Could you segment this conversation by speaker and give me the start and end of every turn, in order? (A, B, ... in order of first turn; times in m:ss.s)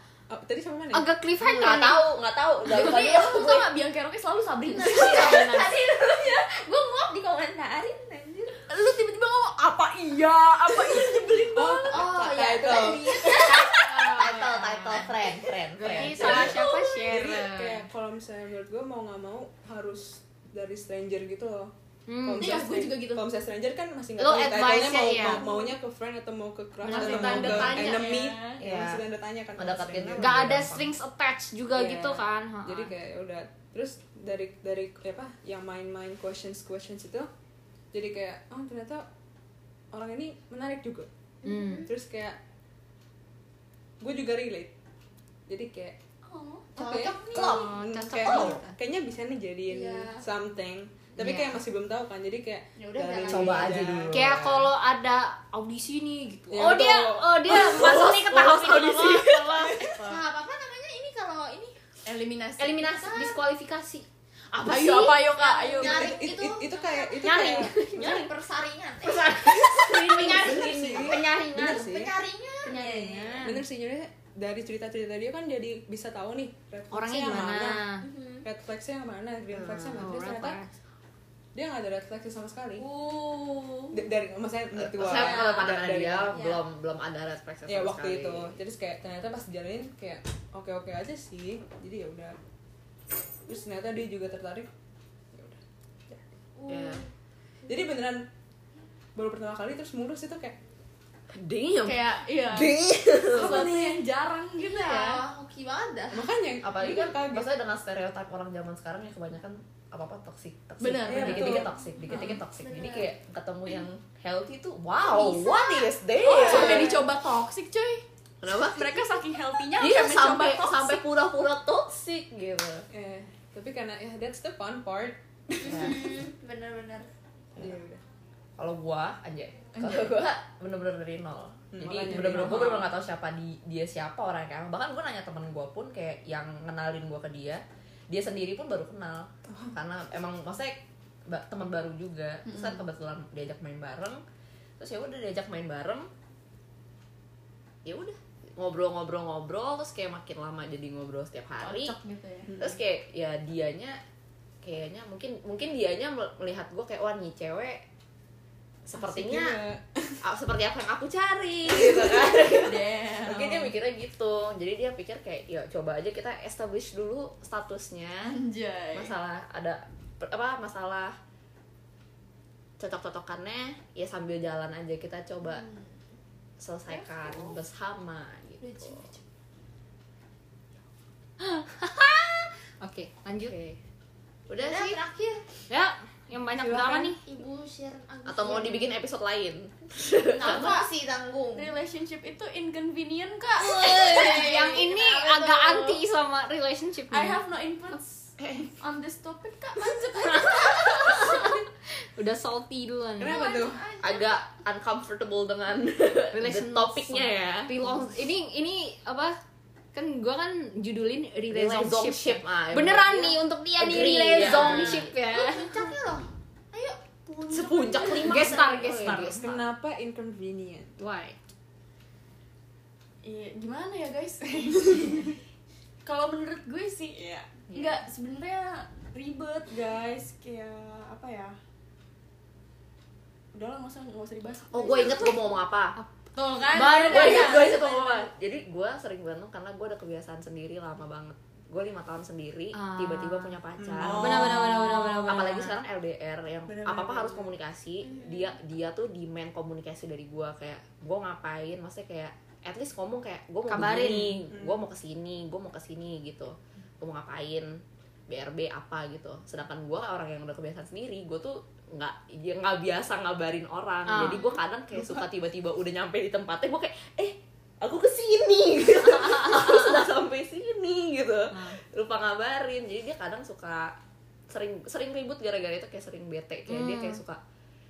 0:00.3-0:01.1 A
0:00.9-0:02.0 B
0:01.6-0:03.7 C
0:02.6-0:05.4 D
0:04.6-0:05.7 B
0:04.8-0:08.6 E
0:08.7-0:12.0 D
0:11.5-0:13.8 A
0:11.9-0:14.4 E
0:13.3-0:14.5 D
0:14.1-0:16.6 C
0:15.9-0:17.9 B
0:15.9-0:30.4 A
0:15.9-0:17.0 D
0:22.1-0:22.7 B
0:22.4-0:23.2 D
0:24.2-0:25.5 B
0:25.2-0:25.5 D
0:26.8-0:28.0 B
0:26.9-0:28.6 D
0:28.6-0:29.0 C
0:29.6-0:30.9 C
0:30.2-0:32.9 B
0:31.7-0:37.3 A
0:37.9-0:39.0 A
0:39.9-0:41.1 A
0:41.4-0:41.9 E
0:41.4-0:41.9 B
0:41.8-0:42.4 A
0:44.0-0:44.7 A
0:45.5-0:46.0 A
0:46.3-0:46.6 D
0:46.6-0:47.7 E
0:46.7-0:54.2 A
0:47.3-0:48.7 B
0:48.2-0:48.5 C
0:49.7-0:50.2 E
0:51.2-0:51.6 B
0:52.8-0:53.8 E
0:53.2-0:54.7 C
0:54.1-0:59.9 B
0:56.5-0:58.1 A
0:57.5-1:00.2 D
0:59.6-1:00.0 A
1:00.0-1:01.8 E
1:02.0-1:03.3 D
1:02.6-1:05.8 B
1:03.1-1:03.3 E
1:04.6-1:06.1 D
1:05.5-1:13.5 E
1:05.8-1:08.3 A
1:07.2-1:08.3 B
1:09.0-1:11.9 B
1:10.1-1:11.1 C
1:10.2-1:12.2 A
1:12.6-1:13.4 D
1:13.4-1:20.6 A
1:16.9-1:18.1 B
1:18.0-1:18.4 E
1:19.5-1:20.0 C
1:20.0-1:20.7 B
1:21.5-1:22.9 A
1:22.8-1:24.0 D
1:23.9-1:26.4 A
1:24.8-1:28.5 C
1:25.0-1:25.7 E
1:26.3-1:26.6 E
1:27.6-1:32.4 A
1:33.4-1:34.7 A
1:35.3-1:36.2 A
1:36.6-1:37.1 E
1:36.7-1:37.0 C
1:37.6-1:38.3 A
1:39.1-1:40.6 A
1:41.3-1:43.7 C
1:41.8-1:45.2 D
1:44.6-1:46.3 E
1:46.1-1:47.5 A
1:46.6-1:57.0 C
1:50.8-1:51.7 D
1:51.0-1:52.4 A
1:52.2-1:53.1 E
1:55.0-1:55.8 E
1:56.1-2:01.0 D
1:56.4-1:57.0 E
1:58.4-1:58.9 C
1:59.8-2:02.8 C
2:02.9-2:06.0 A
2:05.6-2:07.1 E
2:05.6-2:06.1 C
2:07.6-2:08.0 A
2:08.6-2:24.2 C
2:09.7-2:10.2 D
2:11.7-2:12.9 A
2:19.4-2:19.8 A
2:22.4-2:22.8 D
2:24.8-2:26.1 C
2:27.8-2:32.0 C
2:31.6-2:32.6 D
2:32.6-2:34.0 C
2:34.6-2:37.8 C
2:38.9-2:39.6 C
2:39.0-2:40.2 A
2:40.2-2:48.4 C
2:41.8-2:43.7 D
2:48.2-2:49.1 D
2:48.9-2:51.1 C
2:52.8-2:55.6 C
2:55.5-2:55.8 E
2:56.6-2:59.1 C
3:01.4-3:03.5 B
3:03.4-3:03.8 C
3:04.5-3:05.0 C
3:04.6-3:05.4 E
3:05.7-3:07.2 B
3:06.6-3:07.1 D
3:07.2-3:08.9 E
3:08.2-3:10.7 C
3:10.3-3:10.9 D
3:10.4-3:11.7 E
3:11.5-3:14.5 D
3:13.6-3:17.4 B
3:13.6-3:16.0 E
3:17.1-3:21.6 D
3:18.4-3:18.7 C
3:20.2-3:23.4 B
3:23.2-3:23.9 A
3:23.2-3:24.4 D
3:24.0-3:27.7 C
3:26.3-3:29.4 B
3:29.9-3:35.9 B
3:31.5-3:35.0 C
3:34.3-3:38.6 E
3:37.5-3:39.6 C
3:38.2-3:39.5 B
3:39.3-3:40.9 A
3:41.0-3:41.4 B
3:43.2-3:45.4 D
3:46.0-3:51.5 D
3:53.5-3:55.4 D
3:54.7-3:56.0 C
3:56.3-3:58.2 D
3:56.7-3:57.8 B
3:57.1-4:04.6 C
4:02.7-4:05.7 B
4:03.8-4:05.2 A
4:04.0-4:05.2 D
4:05.3-4:33.9 C
4:06.7-4:07.2 D
4:06.9-4:07.2 A
4:08.0-4:08.6 E
4:13.7-4:14.4 B
4:13.9-4:14.8 A
4:24.0-4:24.5 B
4:31.5-4:31.8 B
4:34.5-4:37.4 C
4:36.7-4:37.2 B